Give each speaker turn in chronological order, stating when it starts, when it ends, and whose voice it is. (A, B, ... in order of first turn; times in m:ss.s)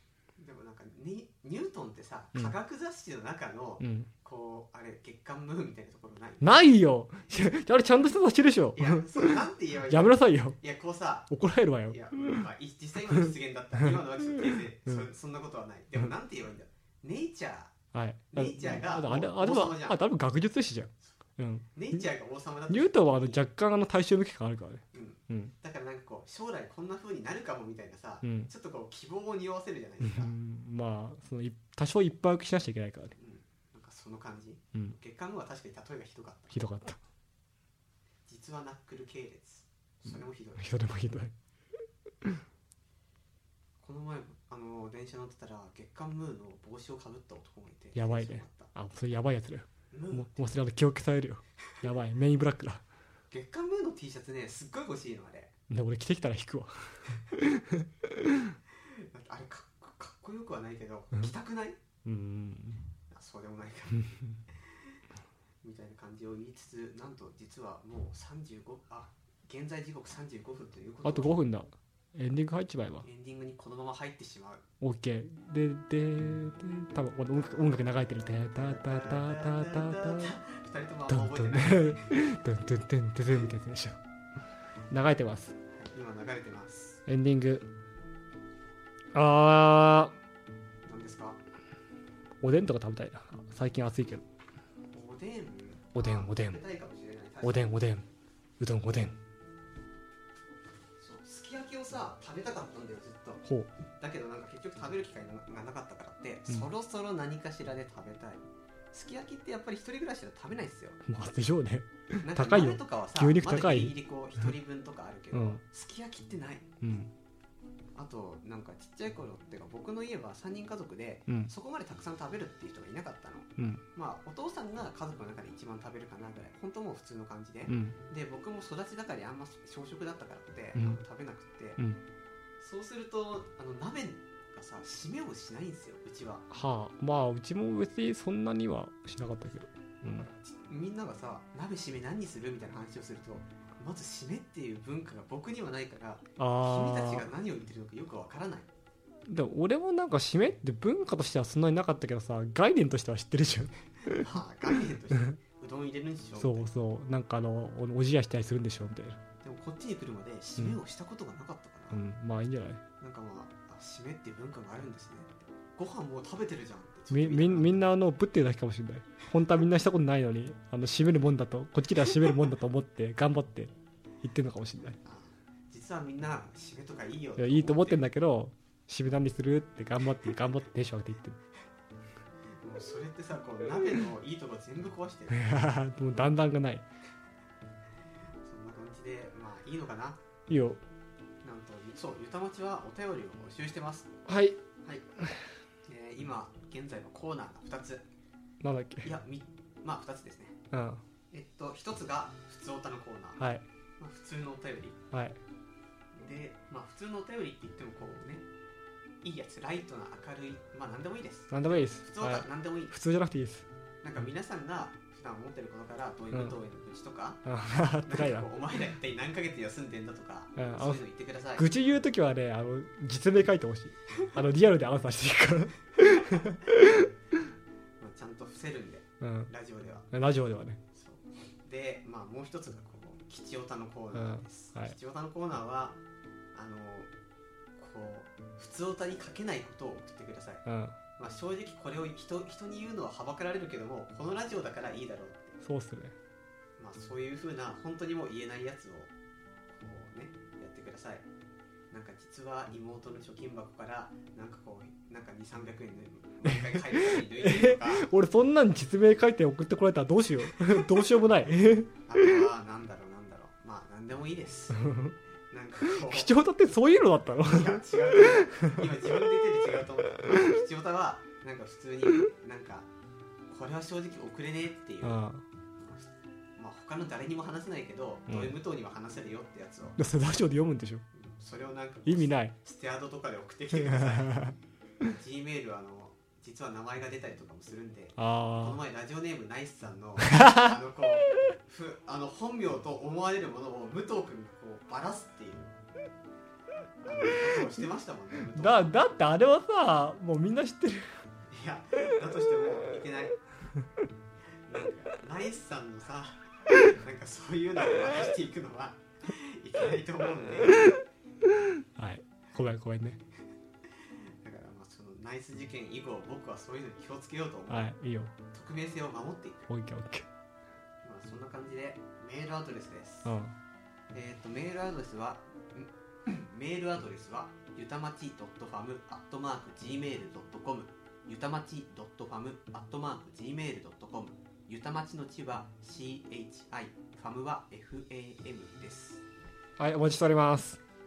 0:00.4-0:06.5 A
0:03.8-0:04.1 B
0:06.4-0:10.6 B
0:08.7-0:11.3 A
0:11.3-0:12.4 B
0:11.9-0:17.7 A
0:13.8-0:15.0 B
0:17.9-0:22.0 B
0:18.3-0:20.0 A
0:21.7-0:23.4 A
0:22.7-0:25.5 B
0:24.9-0:30.4 A
0:28.2-0:28.5 B
0:30.0-0:33.1 B
0:33.2-0:36.6 A
0:36.5-0:37.0 B
0:38.3-0:40.7 A
0:40.0-0:41.3 B
0:43.8-0:48.7 A
0:47.9-0:52.8 B
0:49.9-0:50.6 A
0:53.3-0:55.5 A
0:55.7-0:58.6 B
0:58.8-1:01.8 A
1:02.0-1:02.8 B
1:03.1-1:04.1 A
1:05.6-1:11.4 A
1:11.0-1:13.0 B
1:13.0-1:14.6 A
1:14.8-1:20.4 B
1:17.3-1:17.9 A
1:18.5-1:22.1 A
1:21.1-1:24.0 B
1:24.9-1:25.6 B
1:25.8-1:27.0 A
1:27.1-1:27.6 B
1:29.1-1:30.1 B
1:30.8-1:31.4 A
1:32.4-1:34.2 B
1:34.9-1:37.8 A
1:35.9-1:36.6 B
1:37.4-1:38.0 B
1:38.6-1:39.2 B
1:41.0-1:43.4 A
1:44.0-1:51.0 A
1:51.0-1:54.5 B
1:52.2-1:56.7 A
1:55.3-1:55.6 B
1:56.8-1:57.1 B
1:57.9-2:11.8 A
2:03.6-2:03.8 B
2:07.7-2:08.0 B
2:10.7-2:11.0 B
2:12.6-2:16.4 A
2:16.5-2:20.3 B
2:20.0-2:28.7 A
2:26.4-2:27.3 B
2:29.3-2:34.4 B
2:34.1-2:36.7 A
2:36.4-2:39.2 B
2:39.4-2:42.0 A
2:41.9-2:42.8 B
2:43.0-2:47.9 A
2:47.1-2:53.7 B
2:54.2-2:55.0 B
2:55.0-2:58.0 A
2:57.4-3:01.4 B
3:02.6-3:06.2 A
3:05.3-3:06.8 B
3:08.4-3:10.2 A
3:10.5-3:10.8 B
3:11.4-3:14.1 A
3:14.3-3:14.6 B
3:15.8-3:18.0 A
3:18.6-3:19.1 B
3:19.0-3:20.6 A
3:20.7-3:21.0 B
3:21.3-3:23.4 A
3:23.4-3:23.6 B
3:24.0-3:25.0 A
3:25.1-3:25.4 B
3:26.2-3:28.4 A
3:29.2-3:32.9 A
3:31.5-3:33.7 B
3:34.0-3:37.4 A
3:37.4-3:38.5 B
3:38.0-3:41.6 A
3:40.6-3:41.0 B
3:41.6-3:47.1 B
3:48.0-3:50.1 A
3:49.2-3:49.5 B
3:50.1-3:50.8 B
3:50.9-3:56.0 A
3:54.1-3:54.9 B
3:56.5-3:57.1 A
3:57.8-4:00.6 A
4:00.6-4:01.0 B
4:01.2-4:05.6 A
4:05.6-4:06.1 B
4:06.8-4:09.1 A
4:09.7-4:11.2 A
4:11.9-4:18.1 A
4:16.5-4:22.4 B
4:22.0-4:24.8 A
4:24.7-4:25.1 B
4:25.5-4:26.3 A
4:25.8-4:28.9 B
4:27.4-4:32.9 A
4:33.5-4:35.2 A
4:35.0-4:35.4 B
4:36.6-4:40.0 A
4:38.3-4:38.6 B
4:40.0-4:41.0 B
4:41.1-4:44.4 A
4:42.0-4:42.5 B
4:43.7-4:44.6 B
4:45.0-4:55.7 A
4:48.2-4:48.8 B
4:50.2-4:50.8 B
4:57.0-4:58.9 A
4:58.5-5:01.1 B
5:01.5-5:03.4 A
5:04.7-5:11.0 A
5:11.8-5:13.2 B
5:14.4-5:17.9 A
5:17.7-5:18.3 B
5:18.5-5:19.7 A
5:19.7-5:20.3 B
5:21.0-5:23.3 A
5:23.2-5:23.5 B
5:24.1-5:39.2 A
5:39.8-5:40.8 B